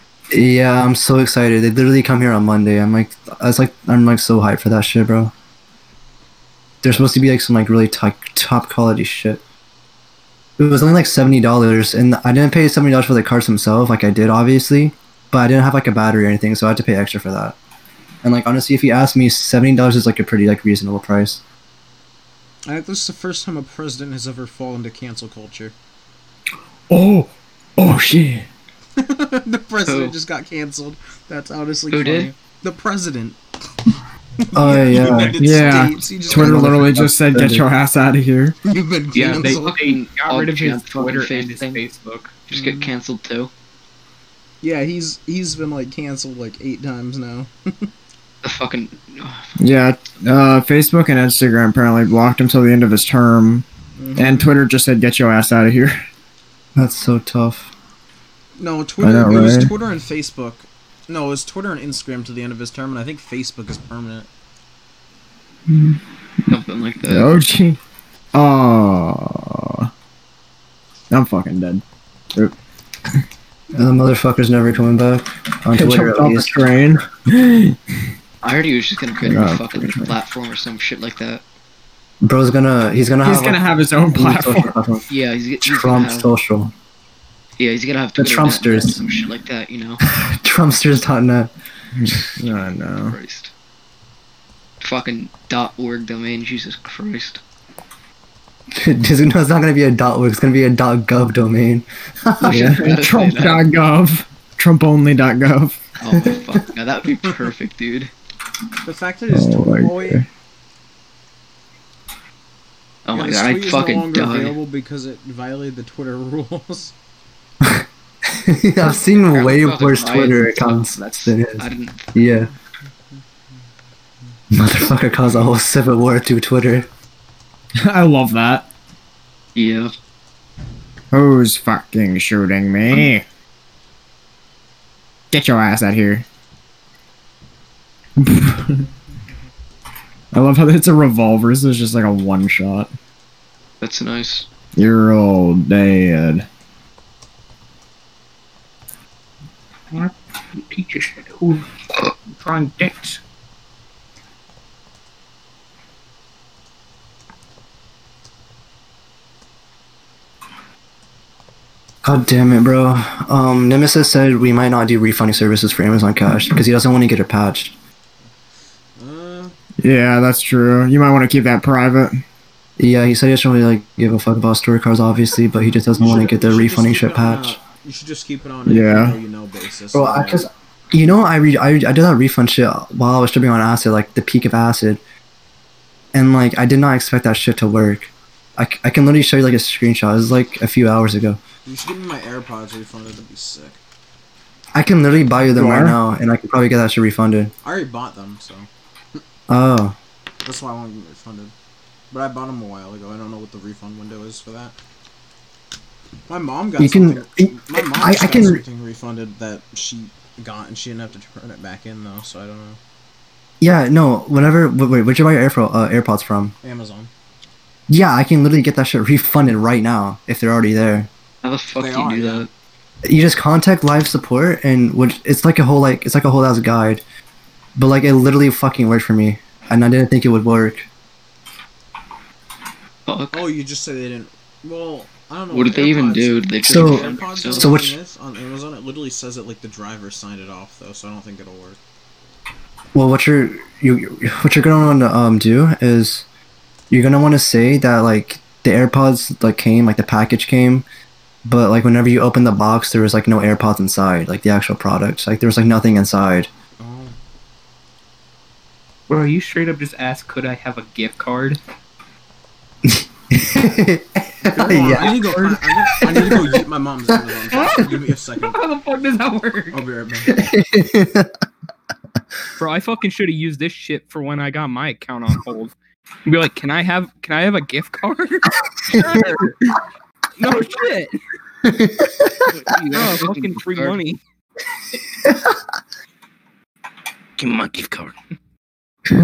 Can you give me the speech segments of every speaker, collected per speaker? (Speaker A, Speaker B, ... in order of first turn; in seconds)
Speaker A: 0.3-5.3, 6.8-9.4, 10.6-17.6, 18.2-21.4, 34.5-35.4, 36.3-37.7, 56.7-57.7, 73.8-76.6, 82.2-83.6, 84.1-85.0, 85.6-86.7, 88.2-89.0, 90.2-91.5, 98.7-102.8, 117.6-122.5, 124.5-126.9, 162.0-167.7, 172.8-177.6, 179.9-185.0, 186.1-191.4, 194.7-197.5, 199.5-199.9, 206.8-208.6, 213.6-216.5, 217.9-221.1, 223.1-227.0, 227.8-230.9, 236.7-237.9, 242.9-246.2, 246.9-250.8, 251.4-256.5, 262.8-265.2, 266.1-266.3, 270.3-271.3, 278.9-279.4, 281.6-282.5, 285.2-285.6
Speaker B: 22.7-25.7, 29.0-33.4, 34.4-36.7, 38.6-39.8, 42.5-42.9, 44.6-47.9, 54.0-54.5, 58.6-64.3, 108.8-110.2, 113.1-116.9, 169.0-169.5, 176.0-180.4, 191.7-193.8, 197.6-199.2, 200.4-201.5, 202.1-204.7, 206.3-212.8, 216.6-217.1, 221.8-222.4, 233.3-241.8, 256.8-257.1, 264.5-268.6, 269.7-270.4
Speaker C: 26.9-28.5, 35.4-38.5, 49.6-56.0, 59.0-59.7, 65.7-66.0, 67.0-67.8, 68.3-69.9, 71.1-71.8, 75.7-77.9, 79.2-80.1, 83.2-84.7, 91.9-93.2, 102.5-105.8, 109.3-110.2, 127.8-128.7, 131.1-133.2, 135.3-136.2, 138.2-138.8, 140.3-142.9, 144.8-146.4, 169.8-172.2, 178.7-179.2, 195.5-196.0
Speaker D: 29.9-30.1, 31.9-32.3, 39.4-41.8, 42.5-43.5, 48.4-49.5, 66.5-67.3, 78.4-81.4, 85.1-86.3, 87.6-90.0, 92.5-93.5, 94.8-97.4, 102.4-103.6, 106.0-108.1, 113.0-114.5, 118.8-122.1, 129.5-129.9, 143.8-144.5, 221.4-222.5, 233.1-233.4, 235.5-237.7, 282.5-284.0
Speaker E: 39.1-42.3, 149.9-153.2, 259.1-261.6, 264.7-266.3, 268.5-269.8, 272.6-275.7, 276.2-279.5, 280.4-281.2, 282.9-284.2, 287.4-288.1